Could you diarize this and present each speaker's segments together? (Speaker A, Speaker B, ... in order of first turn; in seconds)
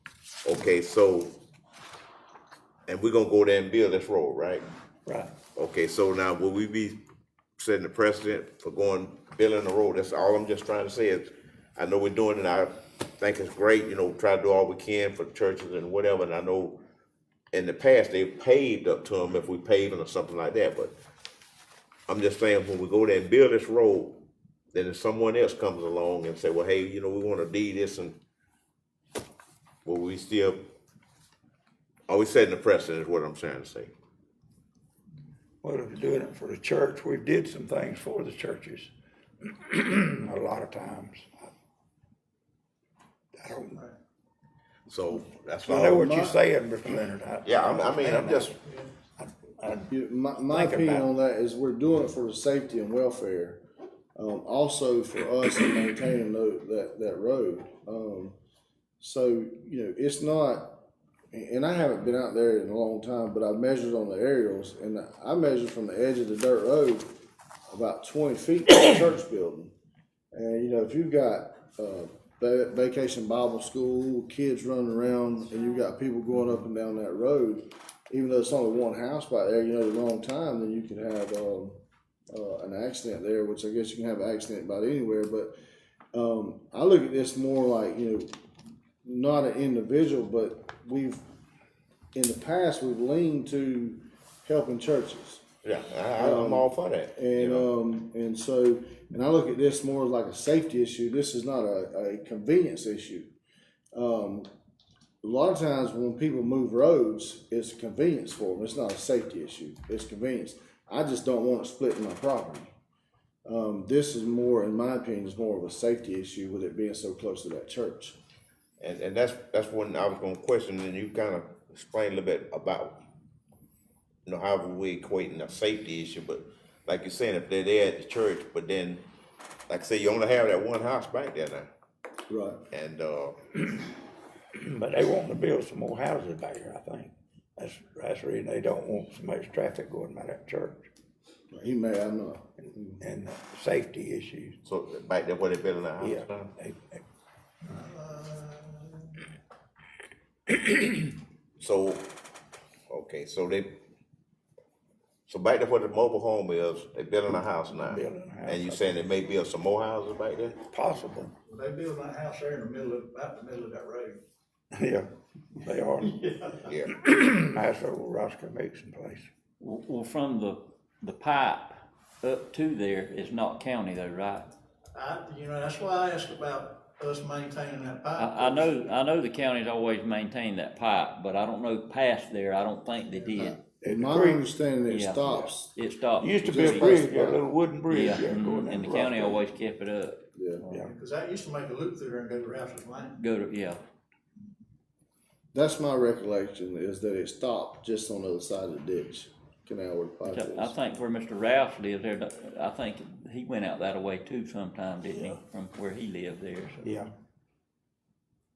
Speaker A: 0.4-1.3, 2.9-4.6, 5.6-7.0, 7.6-16.8, 17.5-20.9, 22.1-28.2, 29.9-30.6, 32.1-33.9, 44.9-46.2, 47.4-48.5, 95.6-97.7, 118.8-123.0, 124.3-129.0, 129.7-131.7, 132.7-133.4, 144.6-146.5, 151.6-152.1, 152.9-153.8, 155.3-160.6, 166.7-166.9
Speaker B: 5.1-5.3, 35.6-38.9, 39.4-41.5, 43.4-43.8, 45.7-48.6, 49.2-49.9, 50.5-51.1, 134.6-140.9, 142.9-144.6, 146.0-147.0, 157.8-159.0, 160.7-161.3, 164.7-166.2, 166.9-169.3, 183.8-184.4, 185.3-185.5, 186.2-189.4, 206.8-207.1
Speaker C: 48.6-48.9, 147.7-149.3, 161.5-164.2, 166.0-166.7, 174.9-178.9, 190.7-193.2
Speaker D: 49.9-53.6, 54.2-58.4, 59.0-67.1, 67.7-69.7, 70.3-85.5, 86.1-88.3, 89.0-91.2, 92.1-95.5, 96.2-103.3, 103.9-104.5, 105.2-112.7, 113.5-118.2, 132.3-132.6, 141.5-143.0, 183.4-185.7, 186.4-187.4, 190.3-190.7, 195.5-200.8
Speaker E: 169.6-174.5, 178.2-183.6, 184.9-187.0, 187.9-190.2, 193.2-193.8, 200.2-206.8